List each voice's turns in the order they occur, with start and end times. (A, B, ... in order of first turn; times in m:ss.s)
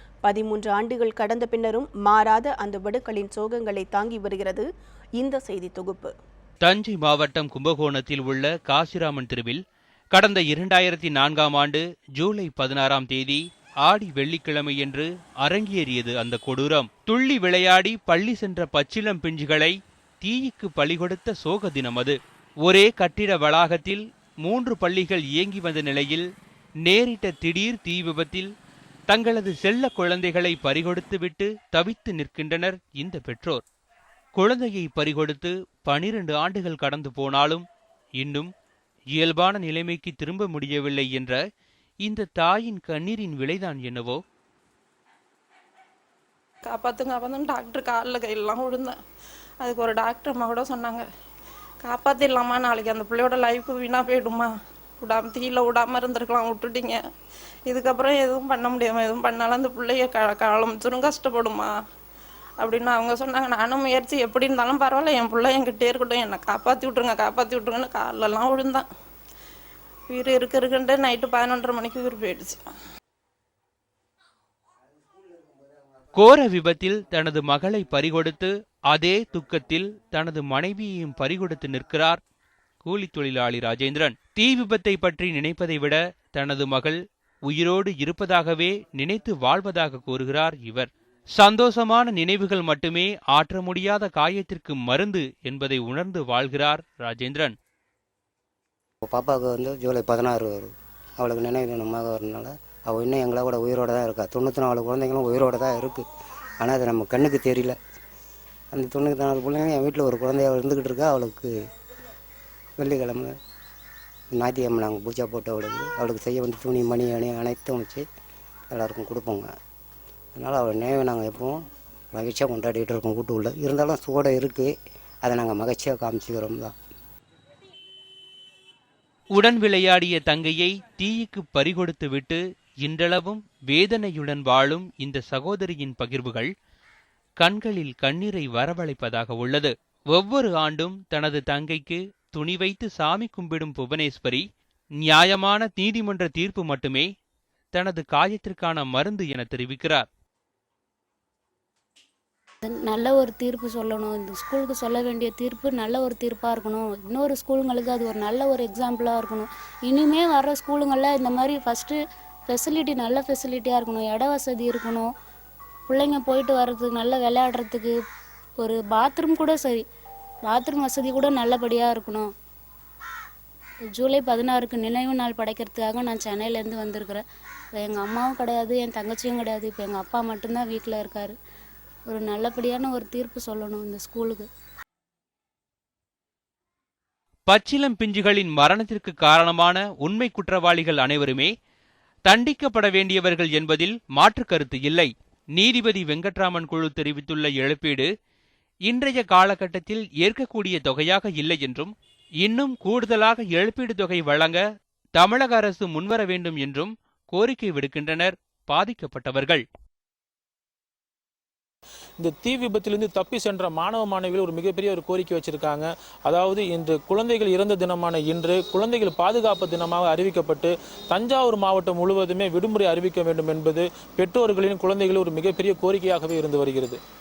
0:00.2-0:04.6 A
0:05.2-0:06.1 A
0:06.6-0:09.6 B
0:10.1-0:26.2 B
0:26.8-0:28.5 B
0:29.1-0:33.6 B
0:34.4-0:37.6 B
0:38.2-0:38.5 B
0:39.2-0:41.4 B
0:42.0-0:44.2 B
0:46.7-0:49.0 C
0:49.6-0:51.0 C
0:51.8-0:54.5 C
0:55.0-0:57.0 C
0:57.7-1:01.7 C
1:02.6-1:08.8 C
1:10.1-1:12.6 C
1:16.2-1:22.2 B
1:22.8-1:37.5 B
1:39.1-1:46.0 D
1:46.6-1:47.8 D
1:48.7-1:51.5 D
1:52.8-1:53.3 D
1:54.3-1:58.0 D
1:58.7-1:59.5 D
2:00.4-2:01.6 D
2:02.1-2:04.7 D
2:05.2-2:06.8 D
2:09.4-2:16.5 B
2:17.4-2:24.4 B
2:25.0-2:27.1 B
2:27.7-2:30.1 B
2:32.6-2:41.9 E
2:42.5-2:45.0 E
2:45.9-2:47.9 E
2:48.6-2:49.8 E
2:50.5-2:52.3 E
2:54.0-2:57.2 E
2:57.8-3:01.3 E
3:02.1-3:04.4 E
3:07.5-3:11.5 B
3:12.3-3:18.1 B
3:18.9-3:21.9 B
3:22.4-3:24.6 B
3:25.2-3:29.6 B
3:32.2-3:47.0 F